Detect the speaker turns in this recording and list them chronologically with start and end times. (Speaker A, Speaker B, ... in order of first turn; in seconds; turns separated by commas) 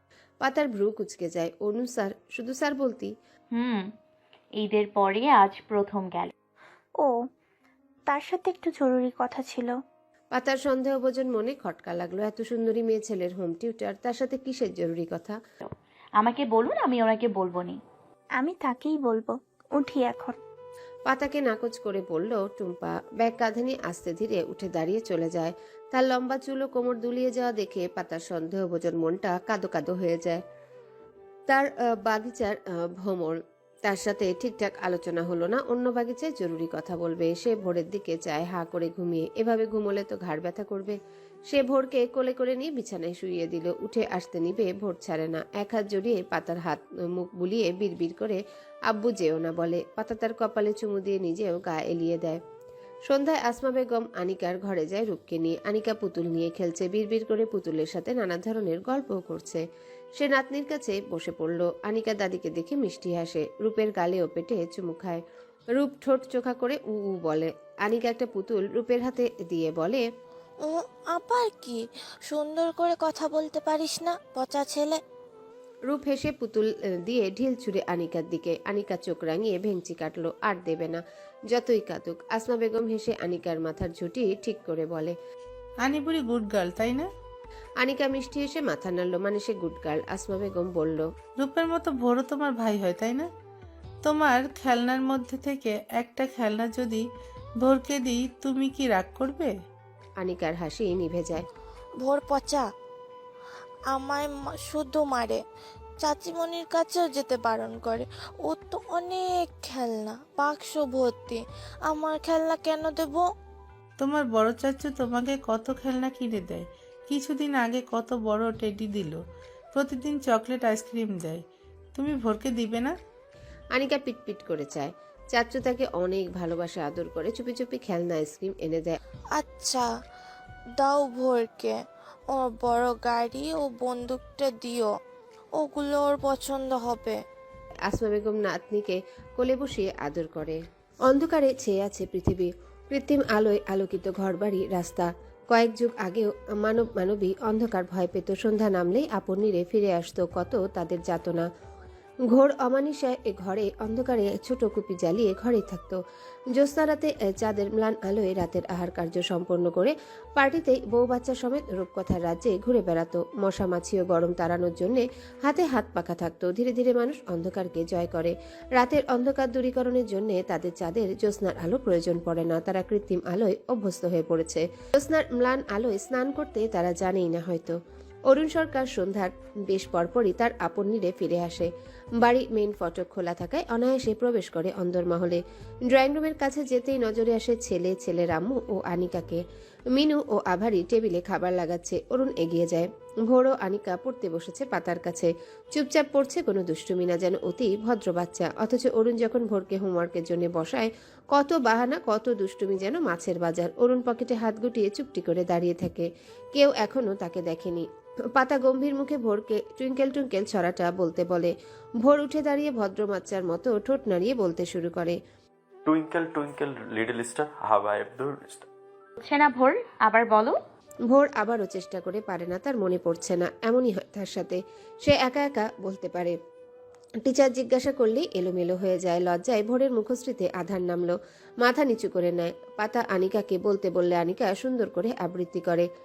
Speaker A: 0.4-3.1, Speaker B: 3.5-3.9, Speaker B: 4.6-6.3, Speaker C: 8.1-9.7, Speaker A: 10.3-15.4, Speaker B: 15.6-17.8, Speaker C: 18.4-20.4, Speaker A: 21.1-30.4, Speaker A: 31.5-41.0, Speaker A: 41.5-52.4, Speaker A: 53.1-59.6, Speaker A: 60.2-65.2, Speaker A: 65.8-70.0, Speaker D: 70.7-75.0, Speaker A: 75.9-85.1, Speaker E: 85.8-87.1, Speaker A: 87.8-91.1, Speaker E: 91.4-93.3, Speaker E: 94.0-97.0, Speaker E: 97.6-99.5, Speaker A: 100.2-101.4, Speaker D: 102.0-102.6, Speaker D: 103.9-105.4, Speaker D: 106.0-113.2, Speaker E: 114.0-119.2, Speaker E: 119.7-121.4, Speaker E: 122.0-123.0, Speaker A: 123.8-129.0, Speaker D: 129.4-129.9, Speaker D: 130.8-131.7, Speaker D: 132.3-134.9, Speaker D: 135.6-137.2, Speaker A: 137.9-151.5, Speaker A: 152.3-156.0, Speaker A: 156.5-177.8, Speaker A: 178.3-189.4, Speaker A: 189.9-215.2, Speaker F: 215.9-218.7, Speaker B: 219.2-220.6, Speaker A: 221.1-226.4, Speaker A: 227.3-235.9